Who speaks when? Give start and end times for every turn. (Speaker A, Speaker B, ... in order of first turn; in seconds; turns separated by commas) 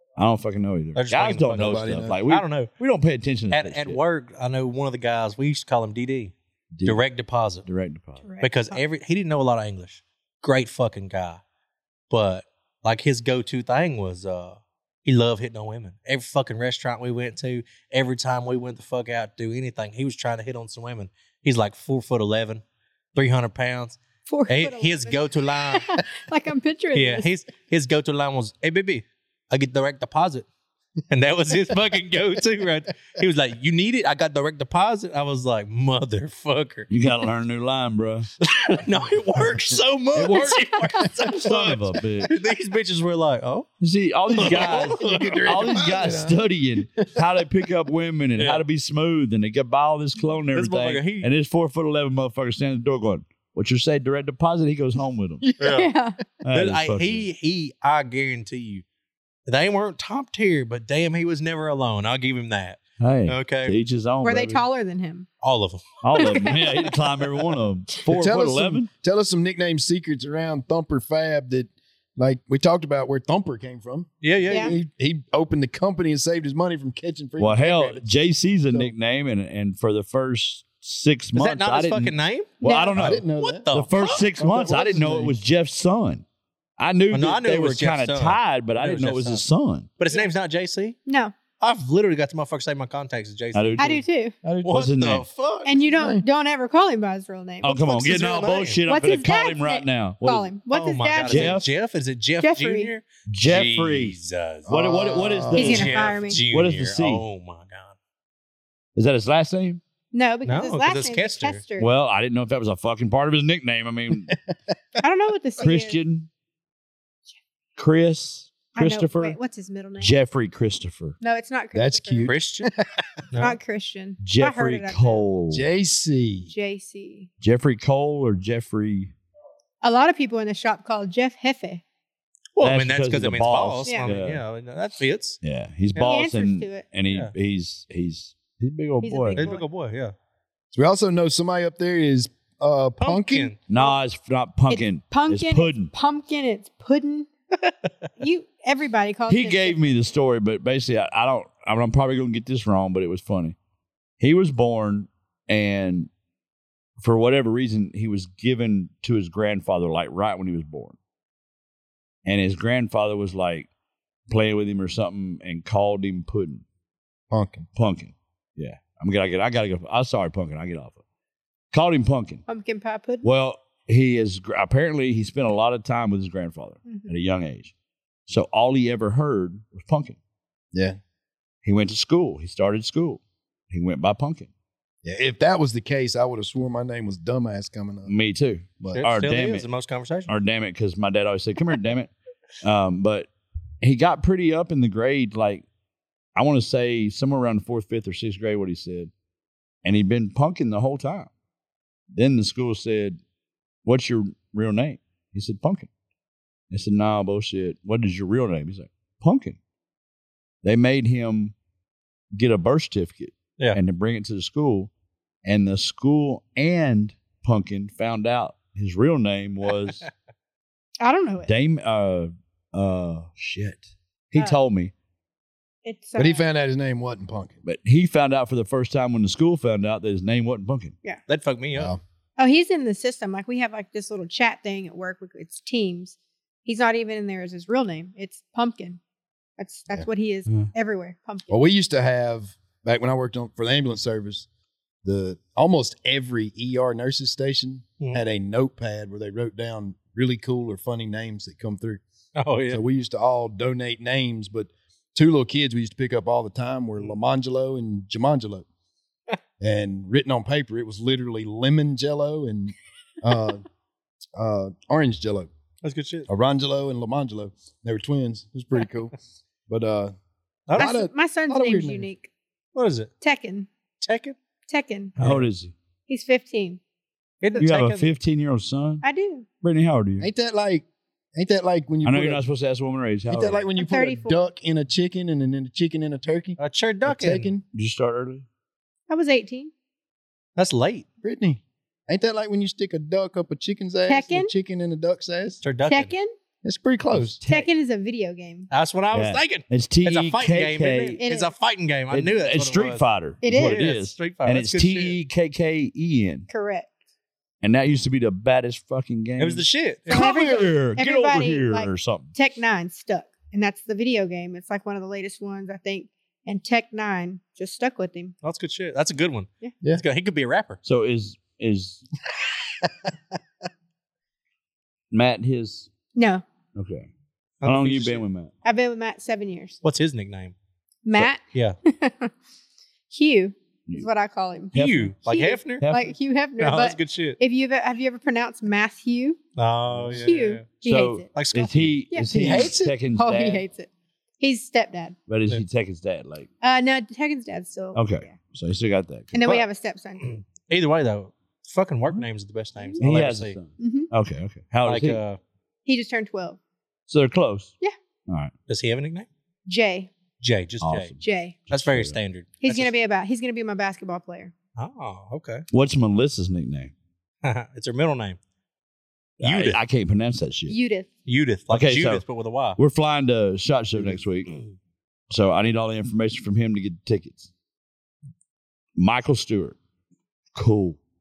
Speaker A: 0.2-4.0, Speaker B: 0.9-2.7, Speaker C: 1.6-2.2, Speaker B: 3.5-7.7, Speaker A: 6.7-7.0, Speaker A: 7.7-8.2, Speaker D: 8.2-8.8, Speaker B: 8.4-11.4, Speaker B: 12.1-22.6, Speaker B: 23.1-26.0, Speaker D: 24.3-27.3, Speaker B: 26.9-30.5, Speaker B: 31.1-36.9, Speaker A: 36.9-38.3, Speaker B: 38.4-43.7, Speaker A: 40.1-40.6, Speaker A: 41.3-42.4, Speaker A: 43.8-55.4, Speaker B: 44.3-45.8, Speaker C: 44.6-47.1, Speaker B: 48.4-48.6, Speaker B: 50.5-51.3, Speaker C: 55.4-55.9, Speaker B: 55.6-55.9, Speaker D: 55.6-56.2, Speaker A: 56.4-57.3, Speaker B: 56.5-58.8, Speaker B: 59.5-63.8, Speaker A: 63.0-64.6, Speaker D: 64.2-65.3, Speaker B: 65.4-66.5, Speaker A: 66.0-68.9, Speaker D: 66.2-67.0, Speaker C: 68.1-78.1, Speaker B: 74.2-74.8, Speaker D: 74.5-74.8, Speaker A: 77.4-86.2, Speaker B: 81.3-84.3, Speaker D: 82.6-83.0, Speaker C: 82.9-83.7, Speaker C: 84.4-85.4, Speaker A: 86.8-89.9, Speaker B: 87.1-89.4, Speaker B: 90.0-91.0, Speaker D: 91.1-91.3, Speaker B: 91.6-94.0, Speaker A: 93.5-93.9, Speaker D: 93.8-94.3, Speaker C: 94.4-94.9, Speaker B: 94.6-95.9, Speaker A: 94.7-95.2, Speaker D: 95.7-98.0, Speaker C: 96.0-96.2, Speaker A: 97.6-100.5, Speaker B: 97.8-98.8, Speaker D: 98.9-101.6, Speaker B: 100.7-104.7, Speaker A: 101.3-101.7, Speaker D: 102.4-102.9, Speaker A: 103.3-104.2, Speaker C: 104.7-105.9, Speaker A: 104.7-107.2, Speaker B: 105.5-108.0, Speaker D: 105.5-106.4, Speaker A: 109.0-109.8, Speaker D: 110.1-111.9, Speaker B: 110.5-111.6, Speaker A: 111.8-114.4, Speaker D: 115.0-116.0, Speaker A: 115.6-116.3, Speaker A: 117.8-119.4, Speaker D: 118.8-120.1, Speaker A: 120.0-121.2, Speaker D: 121.2-122.3, Speaker C: 121.7-122.9, Speaker B: 122.2-122.7, Speaker B: 123.3-123.6, Speaker D: 123.4-125.2, Speaker A: 124.2-125.7, Speaker C: 125.5-126.5, Speaker D: 126.5-127.3, Speaker A: 127.4-129.1, Speaker D: 129.8-131.8, Speaker B: 132.6-135.4, Speaker A: 132.6-134.4, Speaker D: 133.9-134.1, Speaker A: 135.4-139.5, Speaker D: 136.0-136.8, Speaker D: 139.0-139.7, Speaker B: 139.4-140.1, Speaker C: 140.7-143.5, Speaker B: 143.0-143.6, Speaker A: 143.7-145.9, Speaker D: 144.7-147.3, Speaker D: 148.2-149.8, Speaker A: 149.3-153.6, Speaker A: 154.2-156.1, Speaker A: 157.0-161.0, Speaker A: 162.2-163.7, Speaker A: 164.3-166.6, Speaker C: 167.3-167.7, Speaker A: 167.8-171.0, Speaker A: 171.7-172.4, Speaker D: 172.5-173.3, Speaker A: 173.2-177.7, Speaker D: 176.9-177.1, Speaker A: 178.3-180.2, Speaker C: 180.7-181.0, Speaker A: 181.6-184.5, Speaker C: 185.0-188.1, Speaker A: 188.1-189.7, Speaker B: 188.9-190.3, Speaker A: 190.3-193.3, Speaker A: 193.8-195.7, Speaker A: 196.3-199.1, Speaker A: 199.8-201.3, Speaker A: 202.1-203.2, Speaker A: 203.8-205.9, Speaker A: 206.7-209.6, Speaker A: 210.6-211.6, Speaker A: 212.3-214.9, Speaker A: 215.4-220.1, Speaker D: 221.0-221.5, Speaker A: 221.5-224.9, Speaker D: 225.8-226.5, Speaker C: 226.2-227.6, Speaker A: 227.6-230.9, Speaker B: 231.3-231.9, Speaker C: 231.7-232.0, Speaker D: 232.4-239.0, Speaker D: 239.6-241.6, Speaker C: 241.5-244.5, Speaker C: 245.0-252.0, Speaker B: 252.4-252.8, Speaker C: 252.7-258.6, Speaker C: 259.6-263.6, Speaker C: 264.4-265.5, Speaker B: 265.8-266.3, Speaker C: 266.3-269.1, Speaker C: 269.7-270.1, Speaker B: 270.7-270.9, Speaker C: 270.7-272.1, Speaker D: 270.8-272.3, Speaker B: 272.8-273.1, Speaker D: 273.2-273.7, Speaker B: 274.0-274.4, Speaker D: 274.7-275.1, Speaker B: 275.2-275.5, Speaker A: 275.2-275.7, Speaker D: 276.1-276.8, Speaker B: 277.4-278.1, Speaker A: 277.6-279.0, Speaker D: 279.0-279.5, Speaker A: 279.6-280.3, Speaker C: 280.2-282.4, Speaker A: 282.0-283.6, Speaker C: 283.3-287.6, Speaker D: 283.8-284.4, Speaker B: 286.6-287.5, Speaker A: 287.7-288.5, Speaker D: 289.1-289.7, Speaker B: 290.6-291.1, Speaker C: 291.2-295.6, Speaker D: 294.1-294.5, Speaker B: 295.6-296.1, Speaker D: 295.9-296.3, Speaker C: 296.6-297.4, Speaker A: 297.4-297.7, Speaker D: 297.5-298.7, Speaker B: 298.7-305.2, Speaker A: 299.1-301.2, Speaker D: 301.2-301.5, Speaker A: 302.1-306.5, Speaker D: 303.4-303.8, Speaker D: 306.5-306.9, Speaker A: 307.6-312.3, Speaker B: 309.4-310.5, Speaker D: 310.1-318.3, Speaker B: 318.4-320.8, Speaker A: 320.8-322.1, Speaker A: 325.1-325.9, Speaker D: 326.1-326.4, Speaker A: 326.8-327.1, Speaker B: 327.6-328.2, Speaker A: 327.6-328.5, Speaker D: 328.6-329.8, Speaker B: 329.8-330.6, Speaker D: 331.1-332.3, Speaker D: 333.1-339.4, Speaker A: 334.7-335.1, Speaker B: 334.7-335.8, Speaker A: 335.8-336.1, Speaker B: 336.6-337.4, Speaker B: 339.6-340.7, Speaker A: 339.9-340.2, Speaker D: 340.1-341.3, Speaker A: 340.8-343.6, Speaker B: 341.3-341.9, Speaker D: 342.1-343.9, Speaker C: 342.3-343.0, Speaker D: 344.4-345.2, Speaker A: 345.3-346.5, Speaker D: 346.6-348.4, Speaker A: 347.9-349.4, Speaker D: 349.3-350.4, Speaker B: 350.2-353.6, Speaker A: 353.0-355.2, Speaker D: 353.8-354.1, Speaker B: 354.8-355.4, Speaker D: 355.9-356.6, Speaker A: 357.1-357.7, Speaker B: 358.7-359.3, Speaker D: 359.7-360.1, Speaker B: 360.4-361.1, Speaker A: 360.8-362.2, Speaker D: 361.2-361.6, Speaker B: 361.7-362.9, Speaker D: 362.6-364.5, Speaker B: 364.8-365.6, Speaker A: 365.7-366.9, Speaker B: 367.4-368.4, Speaker B: 369.4-369.8, Speaker A: 369.4-370.8, Speaker D: 370.7-371.1, Speaker B: 371.3-372.8, Speaker A: 371.7-372.2, Speaker A: 372.8-374.6, Speaker A: 375.3-377.5, Speaker A: 379.0-379.8, Speaker A: 380.6-381.0